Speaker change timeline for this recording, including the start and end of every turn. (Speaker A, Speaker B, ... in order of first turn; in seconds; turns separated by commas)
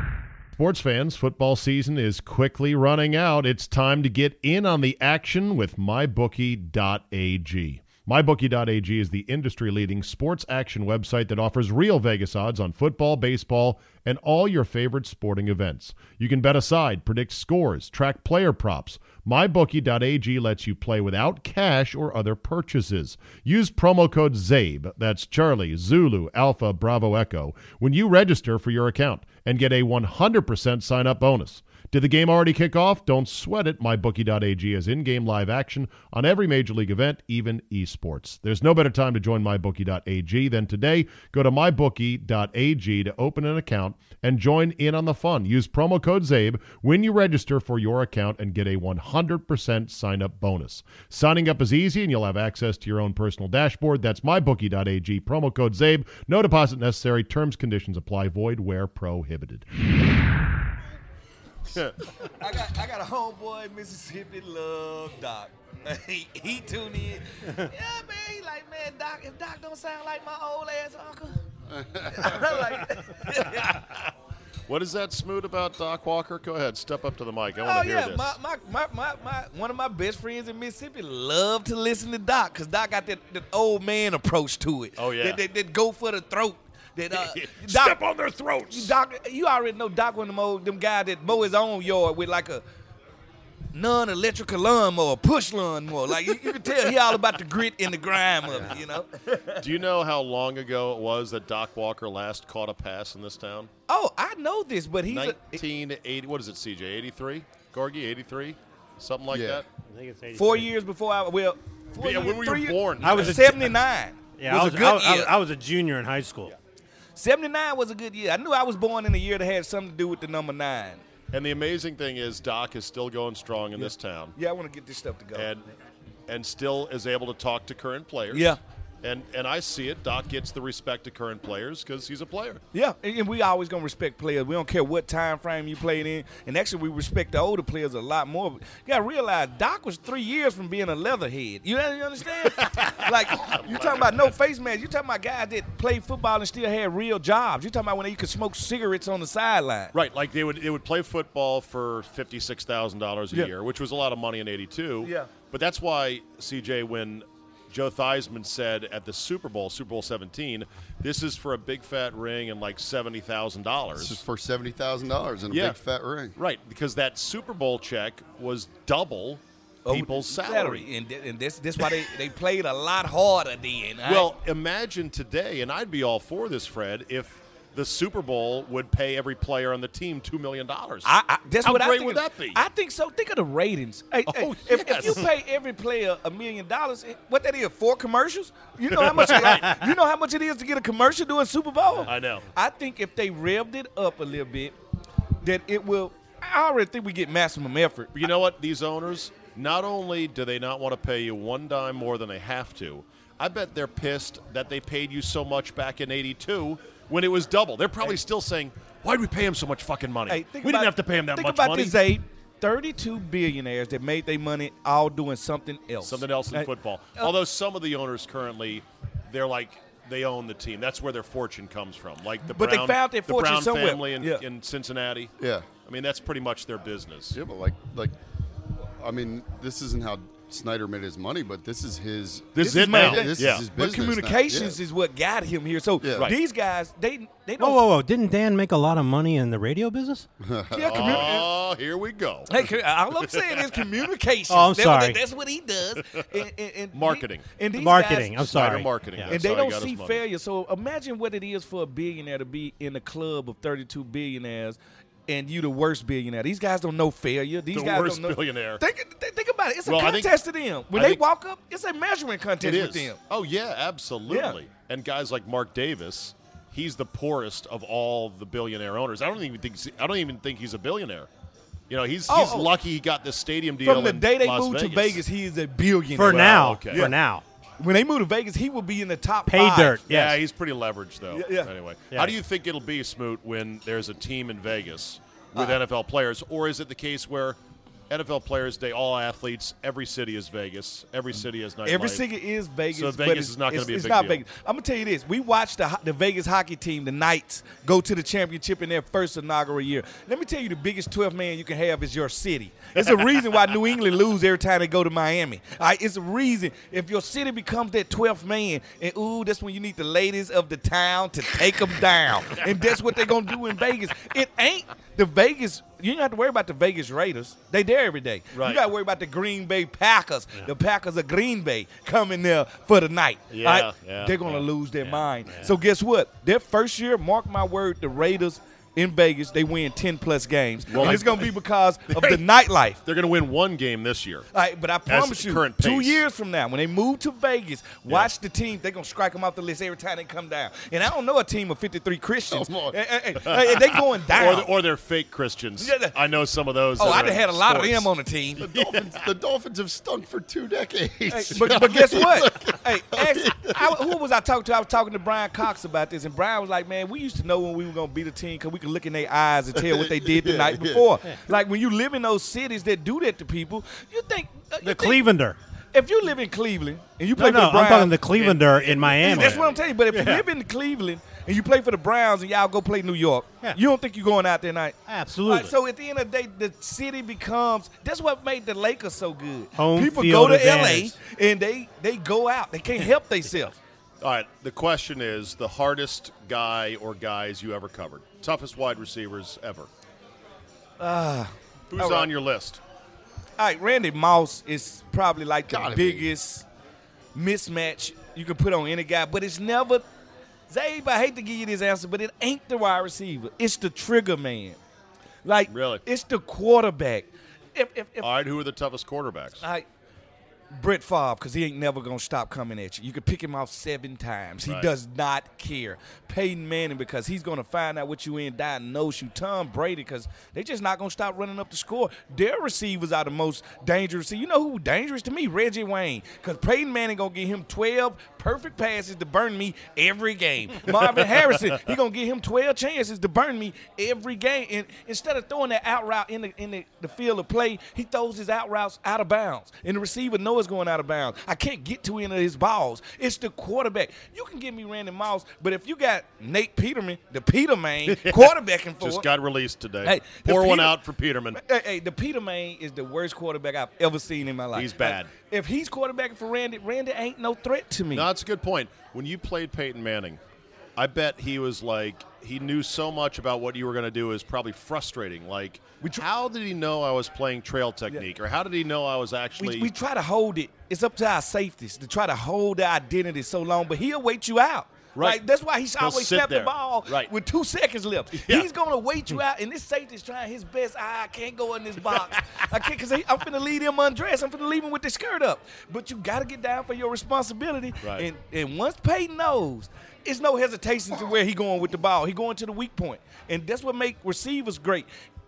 Speaker A: 0.5-59.6, Speaker A: 61.7-61.9, Speaker B: 62.2-71.4, Speaker C: 71.7-72.4, Speaker B: 72.0-74.0, Speaker A: 74.7-78.3, Speaker B: 77.6-88.0, Speaker A: 85.0-85.4, Speaker A: 87.1-88.9, Speaker B: 88.7-92.6, Speaker B: 93.7-99.6, Speaker A: 99.6-103.7, Speaker B: 103.9-105.6, Speaker A: 105.1-109.6, Speaker C: 109.3-109.6, Speaker D: 109.8-110.7, Speaker B: 110.3-115.3, Speaker A: 112.0-113.7, Speaker D: 113.0-113.5, Speaker D: 114.4-116.5, Speaker B: 117.2-121.0, Speaker A: 121.3-124.3, Speaker B: 123.8-125.5, Speaker A: 125.3-125.6, Speaker A: 126.3-132.6, Speaker B: 128.3-128.6, Speaker B: 132.7-149.9, Speaker A: 142.4-144.3, Speaker A: 149.9-164.2, Speaker B: 155.0-155.3, Speaker C: 164.0-166.3, Speaker A: 165.5-165.8, Speaker A: 166.3-170.8, Speaker B: 169.8-174.3, Speaker A: 174.0-181.1, Speaker B: 181.0-194.7, Speaker A: 181.6-182.6, Speaker A: 184.2-185.3, Speaker A: 188.9-189.7, Speaker A: 192.0-192.4, Speaker B: 195.4-198.2, Speaker A: 198.1-212.0, Speaker B: 210.3-217.3, Speaker A: 216.0-225.3, Speaker B: 222.5-224.4, Speaker C: 225.4-225.7, Speaker A: 225.8-227.4, Speaker C: 227.3-228.1, Speaker C: 229.0-234.8, Speaker A: 232.5-233.7, Speaker B: 232.6-237.8, Speaker C: 236.0-236.3, Speaker D: 237.6-240.3, Speaker C: 240.4-241.3, Speaker B: 240.7-241.5, Speaker A: 240.9-243.8, Speaker B: 242.5-248.5, Speaker D: 244.5-245.2, Speaker A: 246.9-247.4, Speaker D: 247.7-249.3, Speaker A: 248.5-250.2, Speaker B: 249.3-263.2, Speaker A: 257.7-258.8, Speaker A: 259.8-260.3, Speaker A: 260.9-261.2, Speaker A: 262.6-271.3, Speaker B: 264.3-264.6, Speaker A: 271.9-275.2, Speaker B: 272.3-272.7, Speaker B: 273.8-277.1, Speaker D: 276.1-277.4, Speaker A: 276.2-277.1, Speaker B: 277.8-280.0, Speaker D: 279.5-280.4, Speaker A: 280.1-287.6, Speaker B: 281.3-281.7, Speaker D: 282.1-282.4, Speaker A: 288.1-292.2, Speaker B: 291.9-333.0, Speaker A: 292.9-294.4, Speaker A: 302.9-303.2, Speaker A: 318.5-318.8, Speaker A: 323.5-325.7, Speaker A: 330.9-331.5, Speaker A: 332.1-332.4, Speaker A: 333.0-334.4, Speaker B: 334.5-344.7, Speaker A: 335.1-336.2, Speaker C: 342.5-343.0, Speaker A: 343.4-348.1, Speaker B: 345.8-346.1, Speaker B: 347.0-348.6, Speaker C: 348.6-354.1, Speaker A: 348.6-349.2, Speaker B: 351.3-365.2, Speaker A: 351.5-352.2, Speaker C: 359.7-361.2, Speaker D: 364.8-365.6, Speaker B: 365.9-368.1, Speaker D: 367.4-370.4, Speaker A: 368.3-369.9, Speaker B: 369.2-383.8, Speaker D: 375.1-375.7, Speaker D: 379.8-381.1, Speaker A: 384.2-389.9, Speaker B: 391.0-392.3, Speaker A: 391.9-392.8, Speaker B: 393.6-396.6, Speaker C: 395.7-396.3, Speaker B: 397.3-400.0, Speaker B: 400.7-404.8, Speaker B: 405.4-408.3, Speaker A: 405.7-406.0, Speaker A: 408.2-409.6, Speaker B: 410.7-449.3, Speaker A: 414.6-414.9, Speaker A: 448.1-451.6, Speaker B: 450.0-451.0, Speaker B: 451.5-458.3, Speaker A: 454.7-455.3, Speaker A: 458.1-460.4, Speaker A: 461.0-469.9, Speaker B: 469.6-495.1, Speaker A: 475.1-475.4, Speaker A: 476.0-477.3, Speaker A: 478.3-478.7, Speaker A: 482.1-482.6, Speaker A: 488.0-488.3